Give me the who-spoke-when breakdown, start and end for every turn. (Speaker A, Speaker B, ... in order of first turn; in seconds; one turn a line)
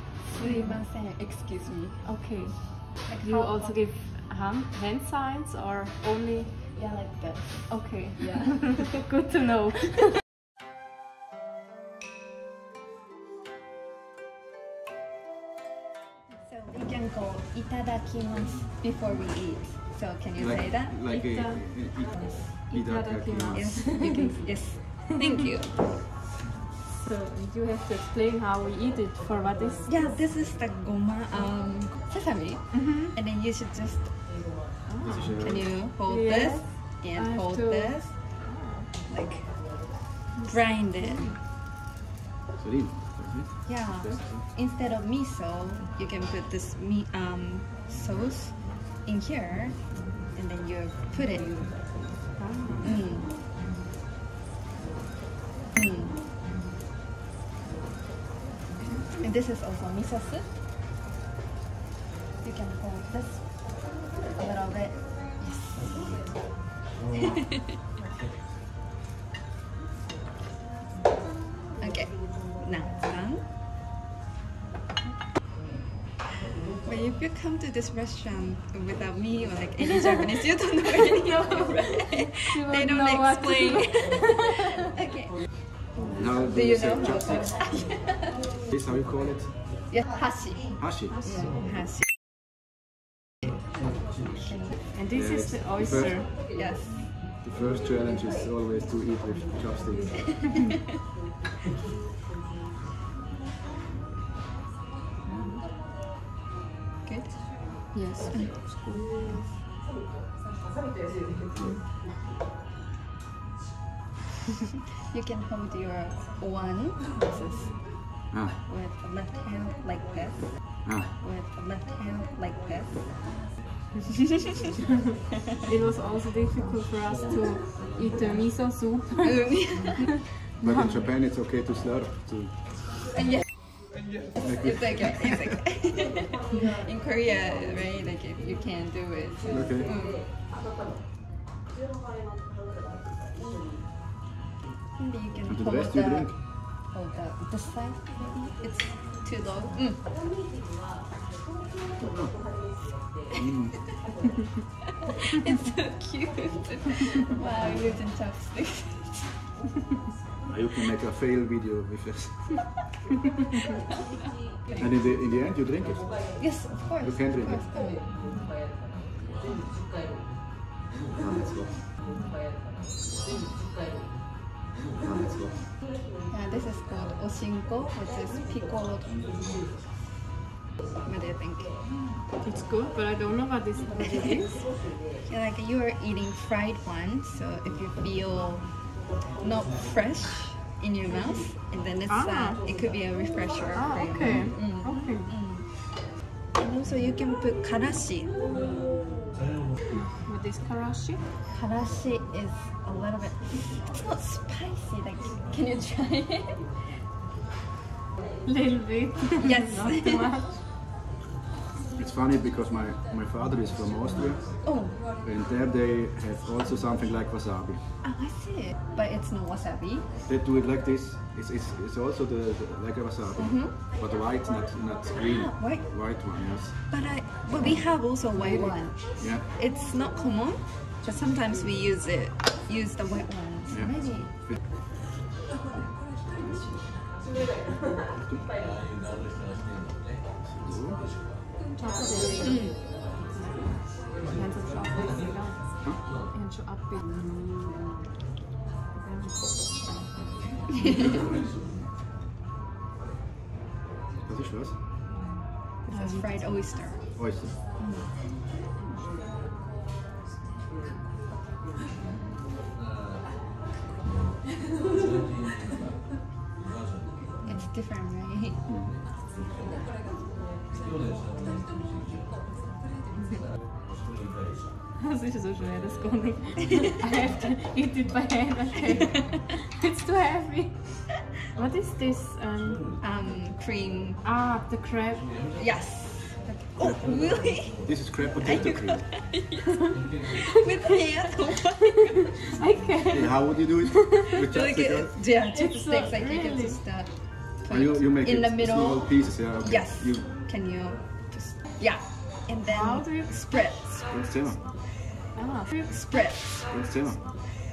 Speaker A: 0.2-2.1
Speaker B: 0.4-0.7
Speaker B: 2.0-6.7
Speaker A: 3.0-3.8
Speaker A: 6.7-9.0
Speaker B: 7.7-10.1
Speaker A: 16.4-21.0
Speaker C: 20.4-23.8
Speaker B: 21.1-22.0
Speaker B: 22.7-25.0
Speaker A: 23.5-25.9
Speaker B: 26.9-30.1
Speaker A: 29.9-34.4
Speaker B: 32.7-33.1
Speaker B: 34.8-38.9
Speaker C: 35.0-35.7
Speaker A: 35.4-38.4
Speaker A: 39.1-41.4
Speaker B: 40.4-41.4
Speaker C: 42.6-44.5
Speaker A: 43.7-51.9
Speaker B: 52.4-53.0
Speaker A: 52.8-53.3
Speaker A: 55.8-56.2
Speaker A: 59.1-60.6
Speaker A: 62.4-66.5
Speaker A: 67.1-67.8
Speaker A: 71.8-73.5
Speaker A: 76.8-85.4
Speaker B: 81.3-84.7
Speaker C: 86.1-88.0
Speaker A: 86.5-88.3
Speaker C: 88.6-89.6
Speaker A: 89.9-92.1
Speaker C: 90.8-91.2
Speaker B: 91.0-91.6
Speaker A: 94.3-94.8
Speaker B: 94.8-96.4
Speaker C: 95.1-96.3
Speaker A: 96.5-97.1
Speaker C: 97.4-100.7
Speaker B: 105.3-105.6
Speaker A: 107.0-107.5
Speaker B: 107.9-109.4
Speaker A: 115.1-123.2
Speaker C: 118.3-118.6
Speaker C: 120.8-121.1
Speaker B: 125.6-130.1
Speaker A: 129.2-130.2
Speaker C: 130.6-132.7
Speaker B: 130.6-131.1
Speaker A: 133.1-133.4
Speaker C: 134.3-135.6
Speaker A: 134.6-140.3
Speaker C: 139.5-139.9
Speaker A: 145.0-150.1
Speaker C: 145.5-146.4
Speaker C: 152.0-153.9
Speaker A: 155.3-159.5
Speaker C: 160.5-162.6
Speaker C: 164.7-167.6
Speaker A: 166.4-168.1
Speaker C: 171.2-171.8
Speaker C: 175.0-175.6
Speaker A: 176.3-179.4
Speaker A: 181.0-181.8
Speaker B: 182.4-185.0
Speaker A: 184.0-198.5
Speaker B: 192.1-192.7
Speaker B: 193.7-195.3
Speaker B: 199.9-201.3
Speaker A: 201.5-206.7
Speaker B: 208.4-210.6
Speaker A: 209.4-210.3
Speaker C: 211.9-217.8
Speaker A: 214.6-215.0
Speaker A: 218.0-220.2
Speaker C: 220.3-226.8
Speaker A: 223.3-223.8
Speaker A: 225.2-225.9
Speaker A: 226.9-234.4
Speaker B: 228.4-228.7
Speaker C: 229.2-229.4
Speaker C: 233.7-234.6
Speaker C: 236.0-236.7
Speaker C: 238.2-238.5
Speaker C: 240.5-241.1
Speaker B: 241.8-242.7
Speaker A: 242.4-242.8
Speaker B: 243.3-248.1
Speaker B: 248.9-250.0
Speaker C: 254.2-254.8
Speaker A: 255.8-257.0
Speaker B: 255.9-256.7
Speaker C: 257.1-257.6
Speaker A: 257.8-258.1
Speaker C: 262.0-262.3
Speaker A: 267.4-268.6
Speaker C: 268.7-269.0
Speaker B: 274.9-282.9
Speaker A: 283.0-284.2
Speaker B: 284.2-285.4
Speaker A: 285.6-287.9
Speaker C: 286.8-289.3
Speaker A: 288.4-292.2
Speaker B: 291.0-291.3
Speaker B: 292.5-294.4
Speaker C: 293.1-295.1
Speaker A: 294.5-304.2
Speaker B: 295.5-296.8
Speaker C: 297.7-300.3
Speaker B: 302.7-303.7
Speaker C: 304.1-304.6
Speaker B: 305.4-306.3
Speaker A: 305.9-306.7
Speaker C: 306.7-307.2